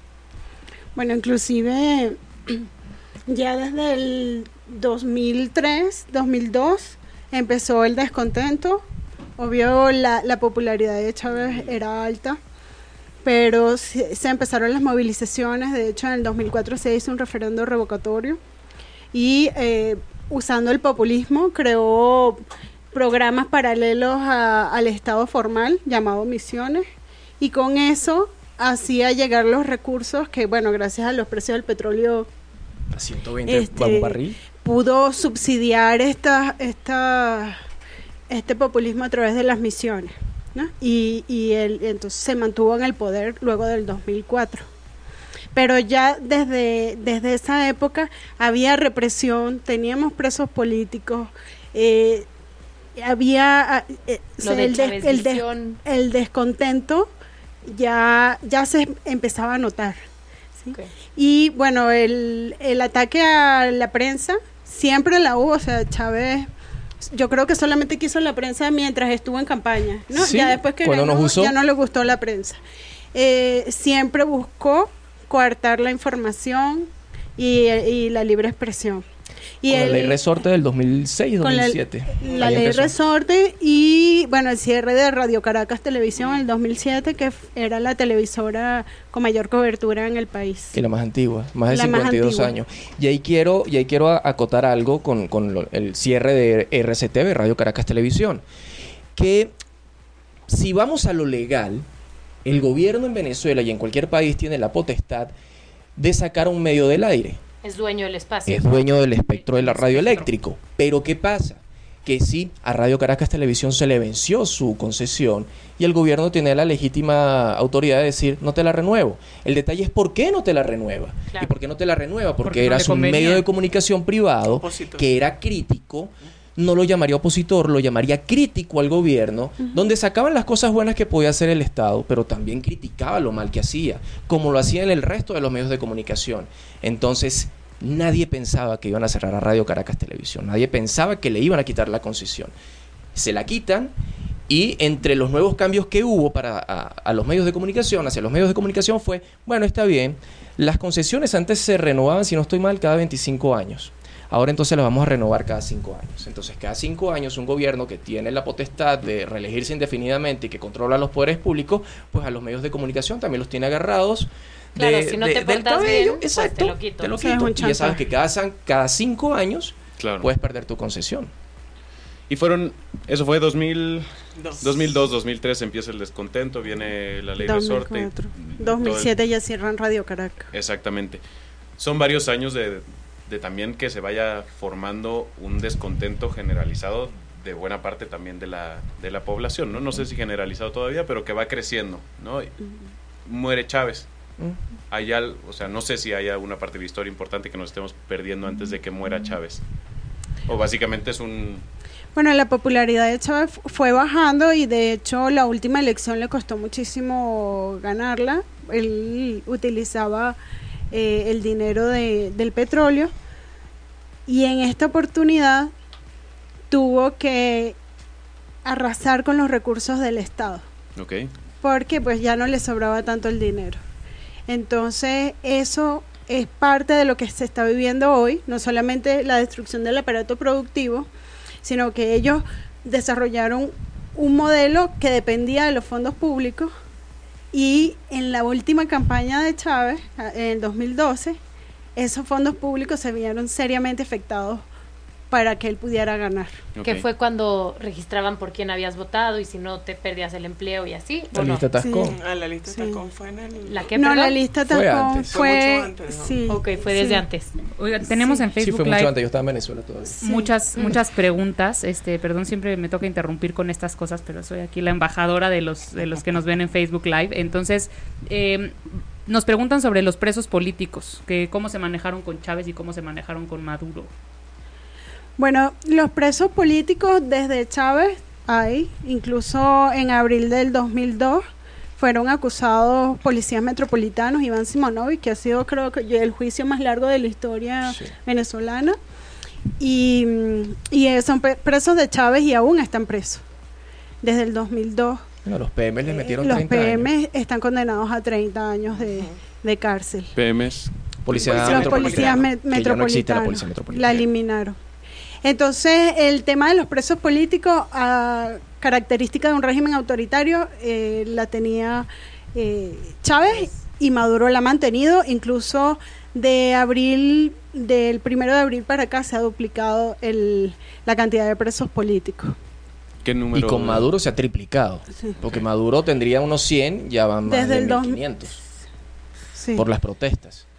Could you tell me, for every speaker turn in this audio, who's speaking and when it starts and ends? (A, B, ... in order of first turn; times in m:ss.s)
0:01.0-0:02.7 A
0:03.3-0:08.8 A
0:09.4-0:12.4 A
0:13.2-0:18.4 A
0:19.1-0:26.8 A
0:27.4-0:32.3 A
0:32.9-0:34.4 B
0:33.5-0:37.6 A
0:38.3-0:44.7 A
0:45.5-0:52.3 A
0:53.0-0:57.1 A
0:54.4-0:55.8 C
0:57.6-1:00.0 A
1:00.6-1:06.5 A
1:07.0-1:12.6 A
1:10.1-1:11.6 B
1:13.1-1:19.0 A
1:19.6-1:20.2 A
1:19.7-1:22.9 B
1:21.4-1:30.8 A
1:30.7-1:38.4 B
1:31.7-1:32.5 A
1:39.2-1:39.5 B
1:40.5-1:41.8 B
1:42.4-1:45.3 B
1:46.0-1:47.4 B
1:47.6-1:48.9 C
1:48.5-2:22.5 B
1:49.2-1:50.3 D
2:02.4-2:03.4 D
2:04.6-2:05.1 E
2:23.1-2:23.9 B
2:24.5-2:51.3 B
2:44.8-2:47.2 C
2:47.2-2:48.0 A
2:50.0-2:50.3 F
2:52.3-2:54.1 F
2:54.4-2:54.8 E
2:54.6-2:59.2 F
2:57.4-3:00.5 A
3:00.5-3:01.2 F
3:01.8-3:12.5 F
3:13.2-3:14.1 F
3:14.9-3:19.6 F
3:20.5-3:21.6 F
3:22.2-3:30.4 A
3:30.9-3:33.1 A
3:34.3-3:35.7 A
3:36.7-3:37.8 A
3:38.6-3:40.7 A
3:41.0-3:41.3 F
3:41.6-3:43.8 A
3:44.5-3:51.1 A
3:51.6-3:56.7 A
3:57.5-4:01.4 A
4:02.0-4:04.7 A
4:05.3-4:06.6 A
4:06.8-4:07.1 F
4:06.8-4:11.6 C
4:11.3-4:12.2 B
4:11.8-4:12.2 A
4:12.0-4:13.9 E
4:12.7-4:13.0 A
4:13.7-4:14.4 C
4:14.0-4:17.2 A
4:14.7-4:15.3 B
4:15.3-4:16.5 E
4:16.5-4:17.5 C
4:17.8-4:19.1 D
4:18.2-4:18.4 A
4:18.6-4:20.1 B
4:20.2-4:20.5 A
4:20.2-4:34.1 D
4:35.4-4:41.4 A
4:42.0-4:49.0 A
4:47.8-4:48.1 B
4:49.8-4:53.4 A
4:54.2-4:55.3 A
4:55.4-4:57.1 B
4:56.1-5:00.3 A
5:00.4-5:00.9 F
5:01.2-5:04.3 B
5:01.3-5:02.5 E
5:01.4-5:04.8 A
5:05.4-5:22.6 A
5:23.2-5:24.1 F
5:23.5-5:28.6 B
5:27.5-5:28.2 A
5:29.6-5:29.8 A
5:29.8-5:30.6 B